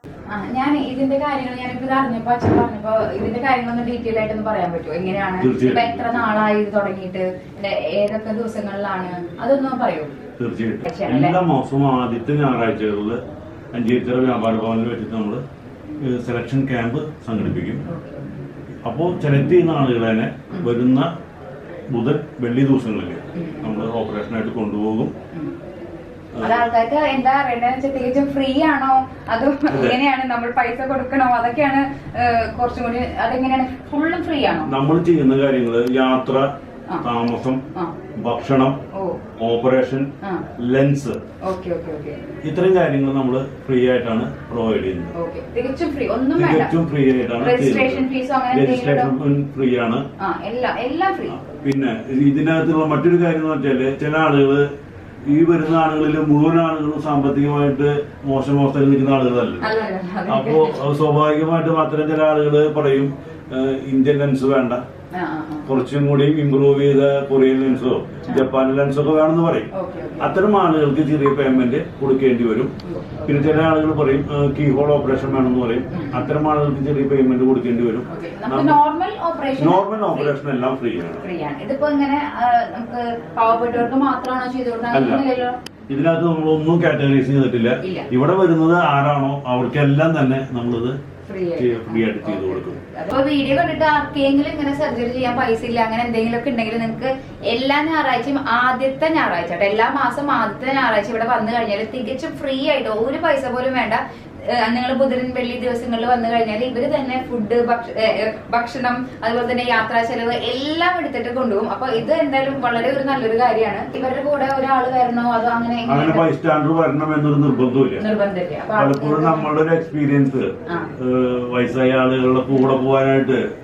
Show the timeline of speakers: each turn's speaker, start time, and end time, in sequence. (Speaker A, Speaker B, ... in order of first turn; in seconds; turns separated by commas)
Speaker A: 0.3-10.2, Speaker B: 5.4-6.3, Speaker B: 10.4-13.2, Speaker A: 10.8-11.4, Speaker B: 13.7-15.4, Speaker B: 16.0-17.8, Speaker A: 17.9-18.3, Speaker B: 18.9-21.1, Speaker B: 21.9-25.1, Speaker A: 23.4-23.8, Speaker B: 26.4-26.7, Speaker A: 26.4-34.7, Speaker B: 29.7-30.0, Speaker B: 34.6-36.5, Speaker B: 37.0-37.6, Speaker B: 38.2-38.8, Speaker A: 38.9-39.2, Speaker B: 39.4-41.2, Speaker A: 41.4-42.3, Speaker B: 42.4-45.1, Speaker A: 45.1-46.7, Speaker B: 46.4-50.0, Speaker A: 47.4-49.1, Speaker A: 50.2-51.4, Speaker B: 51.4-54.6, Speaker B: 55.3-59.7, Speaker A: 59.6-60.8, Speaker B: 60.3-64.8, Speaker A: 65.1-65.7, Speaker B: 65.7-72.7, Speaker A: 69.7-70.3, Speaker A: 72.9-73.4, Speaker B: 73.2-78.8, Speaker A: 75.9-76.3, Speaker A: 78.1-80.3, Speaker B: 79.6-81.3, Speaker A: 81.2-85.6, Speaker B: 84.9-85.2, Speaker B: 85.9-91.0, Speaker A: 87.8-88.1, Speaker A: 91.3-116.2, Speaker B: 91.6-92.8, Speaker B: 115.9-118.0, Speaker A: 118.0-119.5, Speaker B: 118.8-123.4, Speaker A: 120.7-120.9